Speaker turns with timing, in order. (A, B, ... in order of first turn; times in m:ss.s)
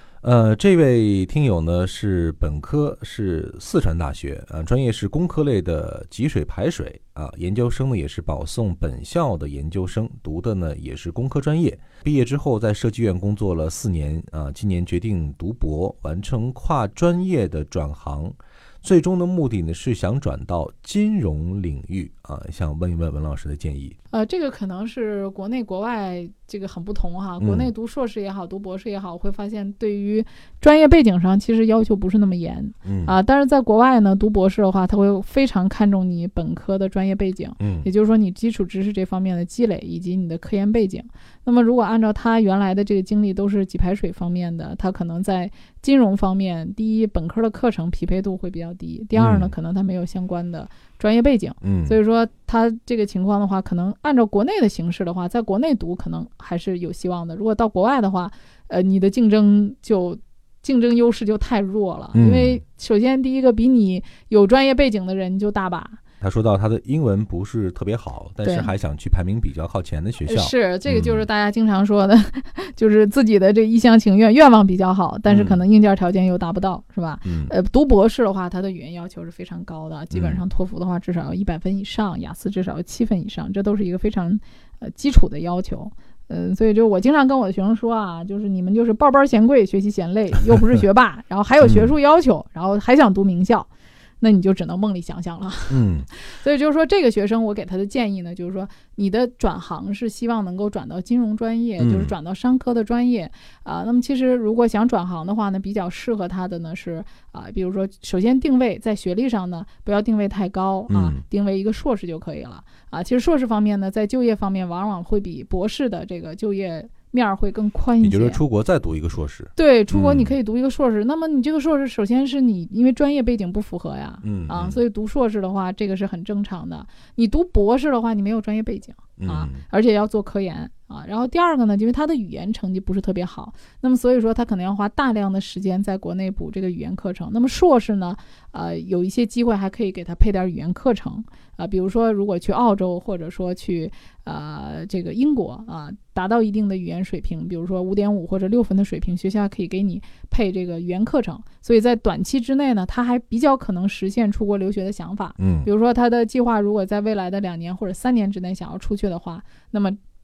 0:00.2-0:24.0 A
0:24.1-1:06.0 B
0:27.4-0:27.7 A
0:32.8-0:33.2 A
0:37.6-0:37.9 A
0:49.1-0:49.5 A
0:51.6-0:52.0 A
1:02.1-1:02.6 A
1:06.2-1:11.2 A
1:08.4-1:08.7 B
1:10.3-1:33.7 B
1:15.3-1:15.6 A
1:17.2-1:17.5 A
1:20.1-1:20.4 A
1:31.6-1:31.9 A
1:34.2-1:58.4 B
1:35.7-1:36.1 A
1:41.8-1:42.1 A
1:50.9-1:51.2 A
1:58.0-2:00.3 A
1:59.6-2:40.0 B
2:04.2-2:04.8 A
2:09.2-2:09.6 A
2:35.4-2:35.7 A